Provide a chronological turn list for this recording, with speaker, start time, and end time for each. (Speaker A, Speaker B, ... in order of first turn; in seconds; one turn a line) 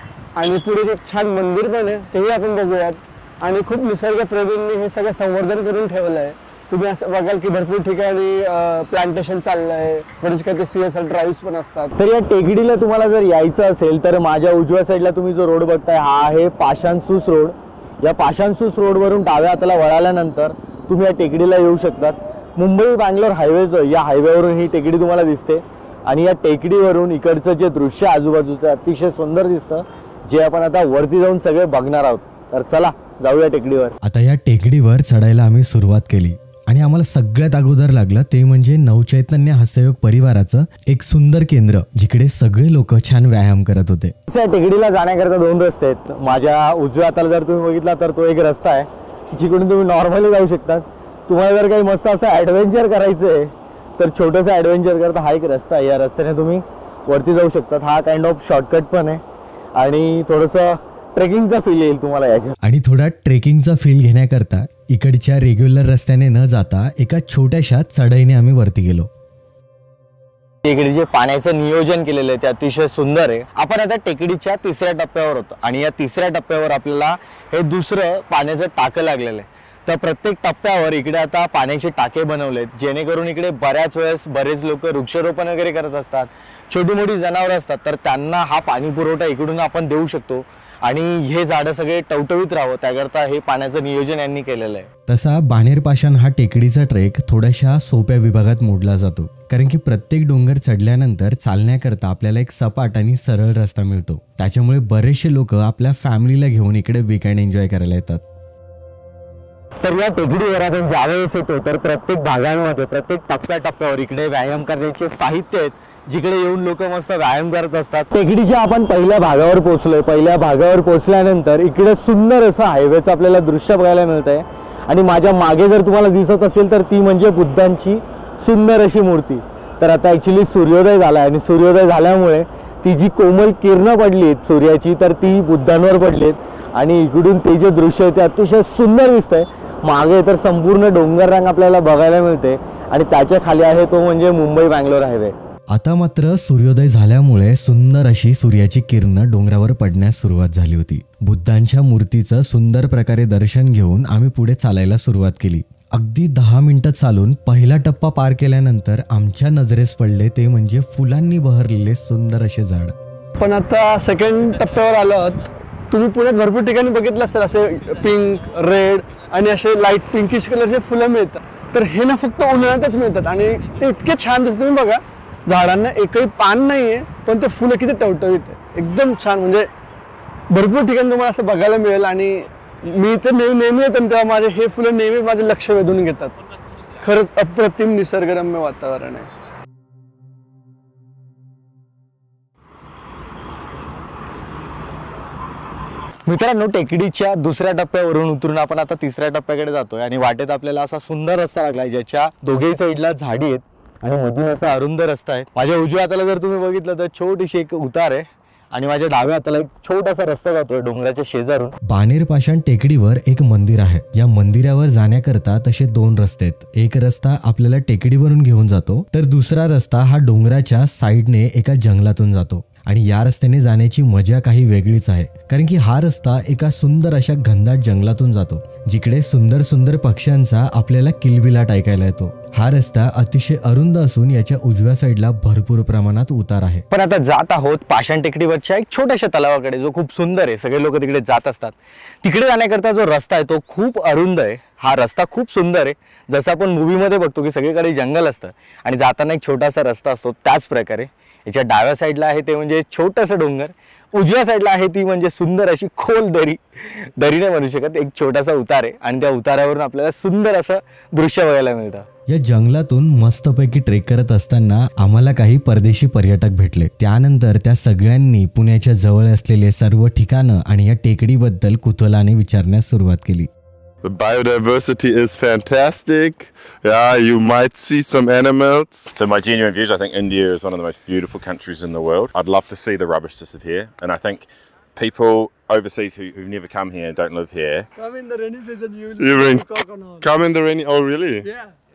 Speaker A: 0.4-11.9
Speaker B: 12.0-34.0
Speaker C: 34.0-44.1
Speaker B: 44.3-59.2
Speaker B: 59.8-62.5
Speaker C: 62.6-69.1
Speaker B: 70.7-94.9
Speaker C: 95.1-108.2
Speaker B: 109.8-145.3
Speaker C: 145.7-162.9
Speaker A: 163.4-165.4
Speaker A: 165.9-179.7
Speaker A: 180.5-186.3
Speaker A: 187.0-189.3
Speaker B: 196.3-211.7
Speaker C: 211.9-236.8
Speaker B: 236.9-262.1
Speaker C: 262.3-273.5
Speaker D: 274.0-279.1
Speaker E: 279.2-287.9
Speaker A: 288.0-290.3
Speaker D: 289.2-289.7
Speaker D: 290.2-291.5
Speaker A: 291.4-291.7